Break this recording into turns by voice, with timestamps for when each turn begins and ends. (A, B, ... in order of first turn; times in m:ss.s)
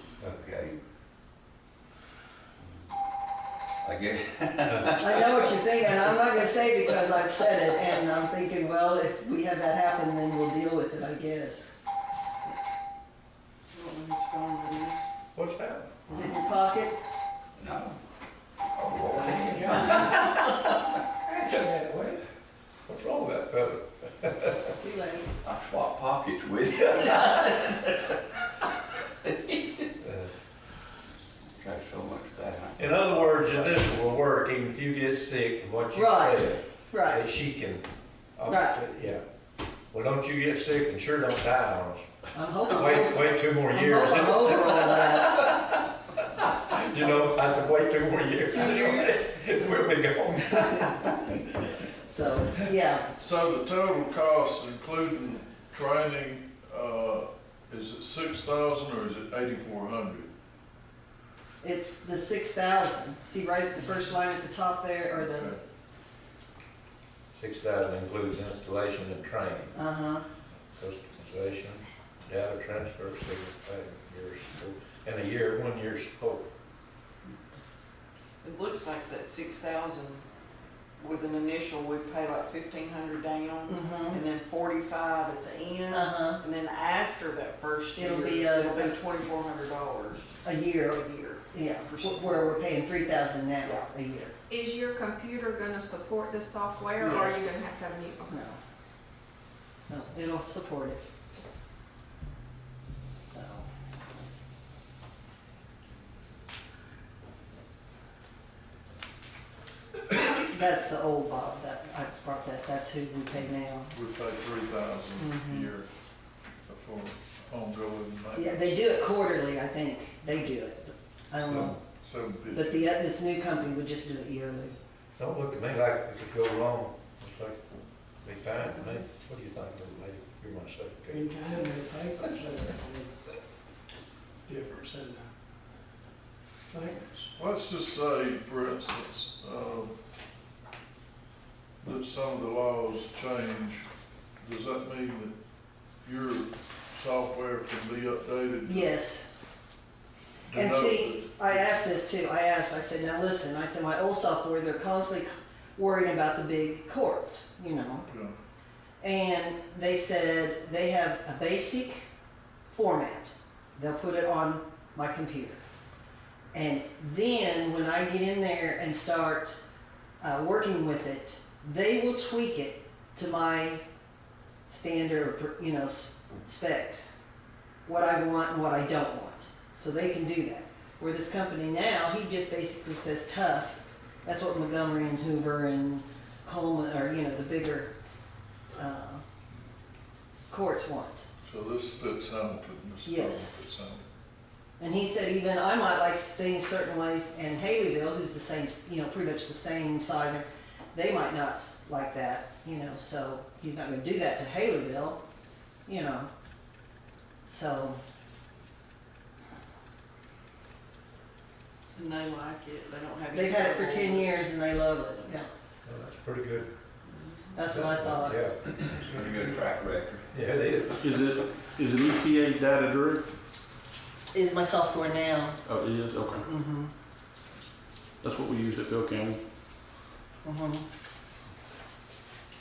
0:00.2-0:00.8 A
0:03.8-0:05.4 A
0:05.0-0:11.7 B
0:13.7-0:15.1 C
0:15.4-0:15.9 D
0:16.1-0:17.0 B
0:17.6-0:18.0 A
0:18.7-0:20.6 A
0:19.1-0:20.3 E
0:21.4-0:22.0 E
0:21.6-0:22.1 D
0:22.8-0:24.7 D
0:24.8-0:25.2 B
0:25.4-0:28.2 A
0:29.2-0:29.8 A
0:30.0-0:30.3 D
0:31.5-0:33.8 A
0:32.8-0:39.2 D
0:35.9-0:37.2 B
0:38.5-0:39.0 B
0:39.9-0:42.1 D
0:42.3-0:45.5 B
0:42.6-0:45.7 D
0:46.7-0:51.2 D
0:48.5-0:49.3 B
0:52.0-0:53.1 B
0:53.2-1:00.3 F
1:01.6-1:05.6 B
1:05.2-1:05.6 F
1:07.3-1:09.8 D
1:09.7-1:10.2 B
1:10.7-1:16.5 D
1:18.4-1:20.2 C
1:21.0-1:30.4 C
1:23.7-1:24.2 B
1:25.9-1:26.4 B
1:28.0-1:29.0 B
1:30.4-1:34.3 B
1:30.9-1:32.6 C
1:33.6-1:33.9 C
1:34.5-1:38.5 G
1:37.0-1:37.5 B
1:38.3-1:38.6 B
1:39.9-1:41.0 B
1:43.2-1:43.7 B
1:50.2-1:53.9 B
1:53.9-1:55.9 F
1:55.2-1:55.7 B
1:56.7-1:58.8 F
1:58.4-2:01.8 B
2:01.4-2:02.9 F
2:02.5-2:04.8 B
2:05.2-2:07.6 D
2:08.2-2:12.5 D
2:11.1-2:13.1 E
2:14.5-2:15.3 E
2:16.7-2:17.2 E
2:17.4-2:19.9 F
2:21.8-2:23.9 F
2:24.4-2:25.4 F
2:26.0-2:28.9 F
2:28.7-2:29.3 B
2:30.5-2:31.7 F
2:30.5-2:38.1 B
2:38.0-2:38.3 F
2:39.0-2:42.1 B
2:42.7-2:45.6 B
2:46.5-2:49.6 B
2:50.2-2:53.8 B
2:54.7-2:57.2 B
2:57.9-3:07.9 B
3:08.8-3:09.2 B
3:10.5-3:11.3 B
3:11.4-3:14.1 F
3:13.0-3:13.6 B
3:14.8-3:25.2 B
3:25.9-3:26.3 B
3:27.5-3:28.0 B
3:31.9-3:34.4 C
3:33.3-3:35.5 B
3:35.8-3:36.7 D
3:37.1-3:37.6 C
3:37.5-3:38.4 B
3:37.7-3:39.4 D
3:38.7-3:40.2 A
3:40.3-3:41.0 D
3:41.2-3:43.2 H
3:44.3-3:45.6 B
3:45.7-3:46.4 H
3:46.4-3:46.9 B
3:48.2-3:49.4 H
3:50.4-3:50.8 B